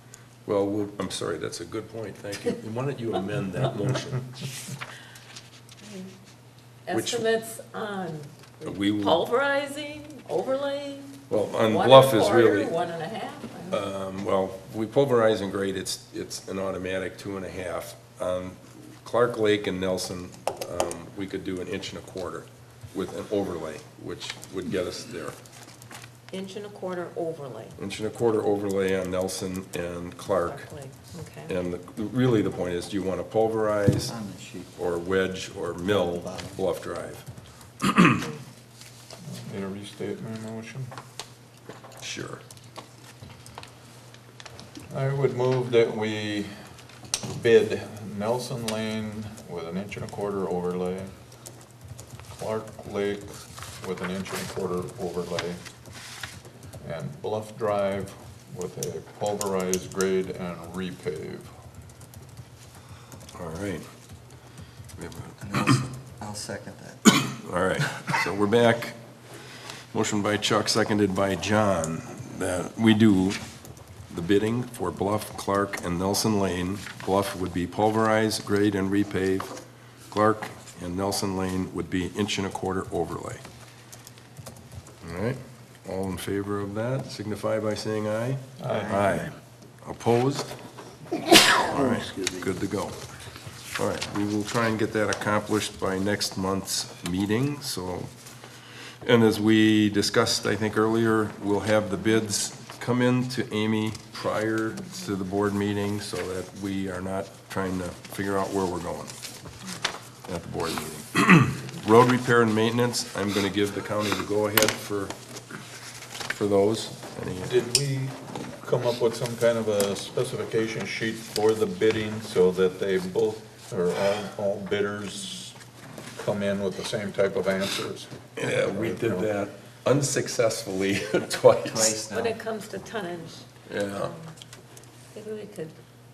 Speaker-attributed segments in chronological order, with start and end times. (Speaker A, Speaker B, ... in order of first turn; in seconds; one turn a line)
Speaker A: 0.4-4.3
Speaker B: 5.8-6.1
Speaker B: 6.8-13.8
Speaker A: 6.9-7.2
Speaker A: 8.6-9.2
Speaker A: 11.3-12.7
Speaker A: 13.7-25.4
Speaker B: 26.3-27.8
Speaker A: 27.8-30.6
Speaker B: 30.2-31.5
Speaker A: 31.5-34.1
Speaker C: 34.0-34.8
Speaker A: 34.8-37.2
Speaker C: 35.9-36.6
Speaker A: 37.8-38.2
Speaker D: 39.2-40.9
Speaker A: 42.0-42.4
Speaker D: 44.9-46.5
Speaker D: 47.2-51.1
Speaker D: 52.3-55.6
Speaker D: 56.8-61.5
Speaker A: 63.4-63.9
Speaker A: 65.0-65.8
Speaker C: 65.4-67.2
Speaker A: 67.1-69.0
Speaker A: 69.9-73.4
Speaker A: 74.1-79.5
Speaker A: 80.1-83.4
Speaker A: 85.0-90.6
Speaker D: 88.6-89.3
Speaker A: 91.4-93.0
Speaker A: 93.7-98.1
Speaker A: 99.0-109.1
Speaker A: 110.2-115.1
Speaker A: 116.2-117.6
Speaker D: 117.4-125.6
Speaker D: 126.1-129.3
Speaker A: 128.3-132.0
Speaker C: 131.6-132.4
Speaker B: 131.9-134.3
Speaker A: 133.7-134.1
Speaker B: 135.1-135.7